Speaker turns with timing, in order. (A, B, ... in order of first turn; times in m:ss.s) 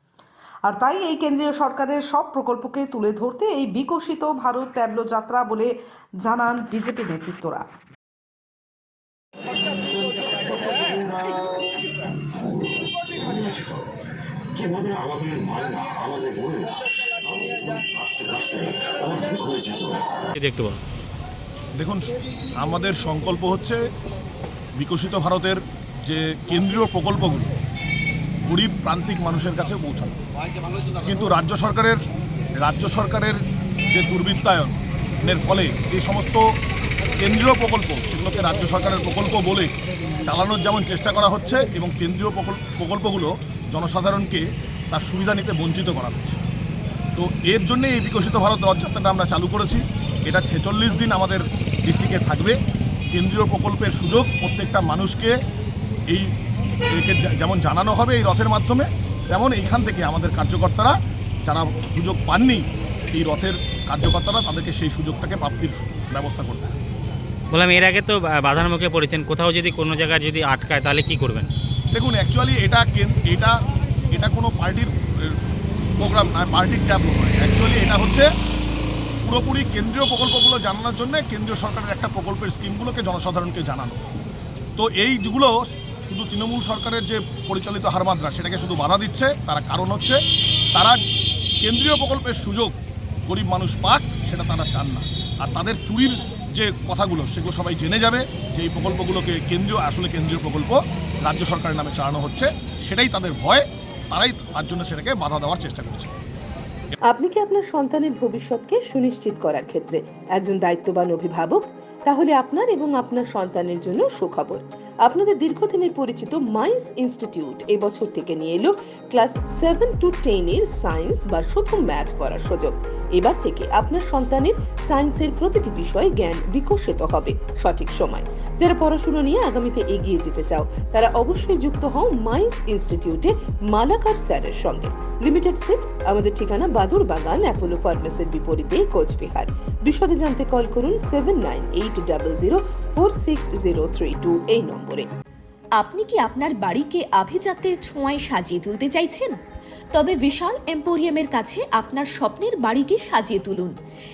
0:00.7-0:05.7 A
0:06.2-0:07.6 A
0:09.6-0:13.9 B
0:14.5-0:20.2 B
0:20.4-0:20.8 C
0:22.6-0:23.8 D
0:24.8-0:27.5 D
0:28.5-0:30.1 D
0:31.0-0:32.0 D
0:32.6-0:33.4 D
0:33.9-0:36.4 D
0:37.2-0:39.7 D
0:40.2-0:46.4 D
0:47.2-0:52.6 D
0:53.1-0:55.4 D
0:56.9-1:00.9 D
1:01.4-1:06.7 D
1:07.5-1:11.5 C
1:11.9-1:13.6 D
1:14.1-1:15.4 D
1:16.0-1:18.3 D
1:19.2-1:24.0 D
1:24.8-1:30.2 D
1:31.6-1:32.7 D
1:33.3-1:46.1 D
1:47.1-2:25.1 E
2:25.8-2:29.4 F
2:29.9-2:33.7 F